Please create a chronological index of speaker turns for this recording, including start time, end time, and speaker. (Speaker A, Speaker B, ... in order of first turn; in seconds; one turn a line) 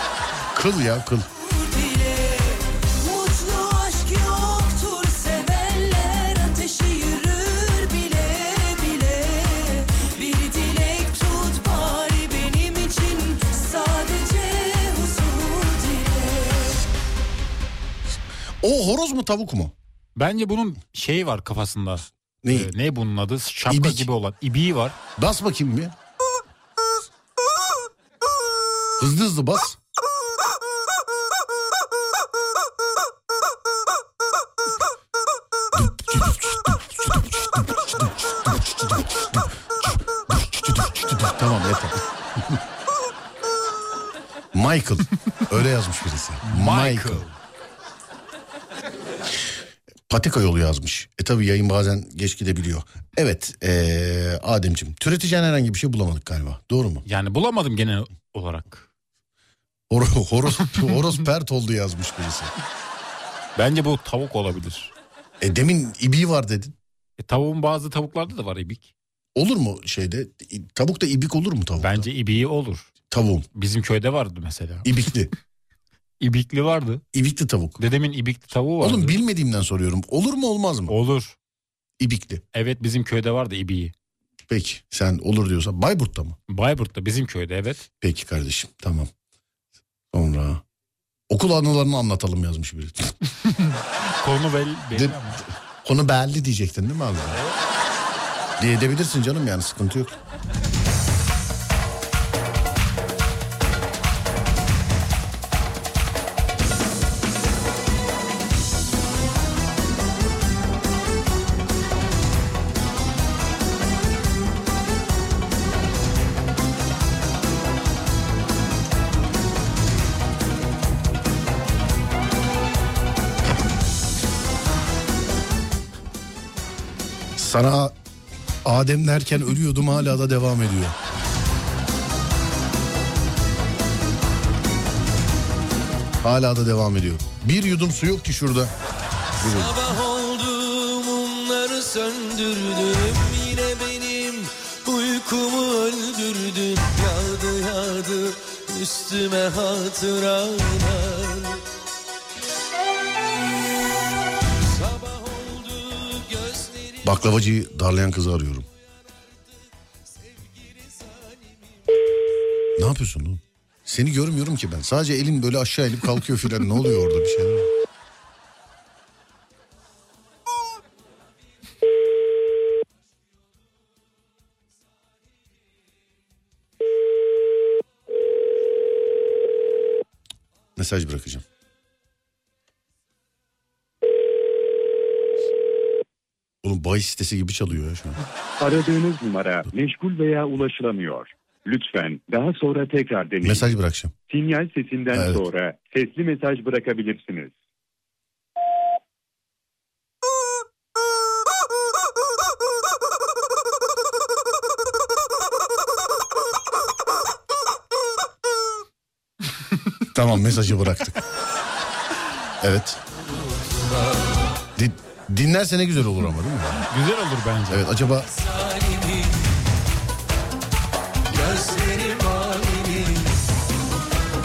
Speaker A: 0.5-1.3
Speaker B: 1.4-16.8
Speaker A: 18.6-19.7
Speaker C: 20.2-25.0
Speaker A: 22.4-22.7
Speaker A: 23.7-24.1
Speaker A: 25.2-25.9
Speaker A: 29.0-29.8
Speaker A: 35.7-42.6
Speaker A: 44.5-47.2
Speaker C: 46.4-47.3
Speaker A: 50.1-57.1
Speaker C: 57.1-58.9
Speaker A: 59.9-62.5
Speaker C: 63.6-64.9
Speaker A: 65.4-66.8
Speaker C: 67.2-68.9
Speaker A: 69.3-72.1
Speaker C: 71.8-72.9
Speaker A: 73.1-73.5
Speaker C: 73.5-74.9
Speaker A: 74.8-75.3
Speaker C: 76.2-77.0
Speaker A: 77.1-77.8
Speaker C: 77.8-79.2
Speaker A: 78.8-81.0
Speaker C: 80.9-81.4
Speaker A: 82.0-82.4
Speaker C: 82.5-83.9
Speaker A: 84.5-86.4
Speaker C: 86.5-87.8
Speaker A: 88.0-89.1
Speaker A: 90.1-90.6
Speaker A: 91.3-93.1
Speaker C: 93.3-95.4
Speaker A: 94.9-95.2
Speaker A: 95.8-97.4
Speaker C: 97.3-97.6
Speaker A: 98.6-100.2
Speaker A: 127.4-128.0
Speaker A: 128.7-130.9
Speaker A: 136.2-138.7
Speaker A: 139.4-139.8
Speaker D: 139.4-151.6
Speaker D: 154.6-157.2
Speaker A: 157.0-158.7
Speaker D: 160.1-161.7
Speaker A: 162.8-167.7
Speaker A: 180.8-181.4
Speaker A: 186.6-188.2
Speaker E: 188.6-193.7
Speaker A: 193.4-194.2
Speaker E: 194.3-197.5
Speaker A: 195.1-195.4
Speaker A: 210.1-211.2
Speaker A: 212.6-213.0
Speaker A: 214.8-216.8
Speaker C: 216.8-217.8
Speaker A: 217.7-218.3
Speaker D: 218.3-219.5
Speaker D: 221.3-223.4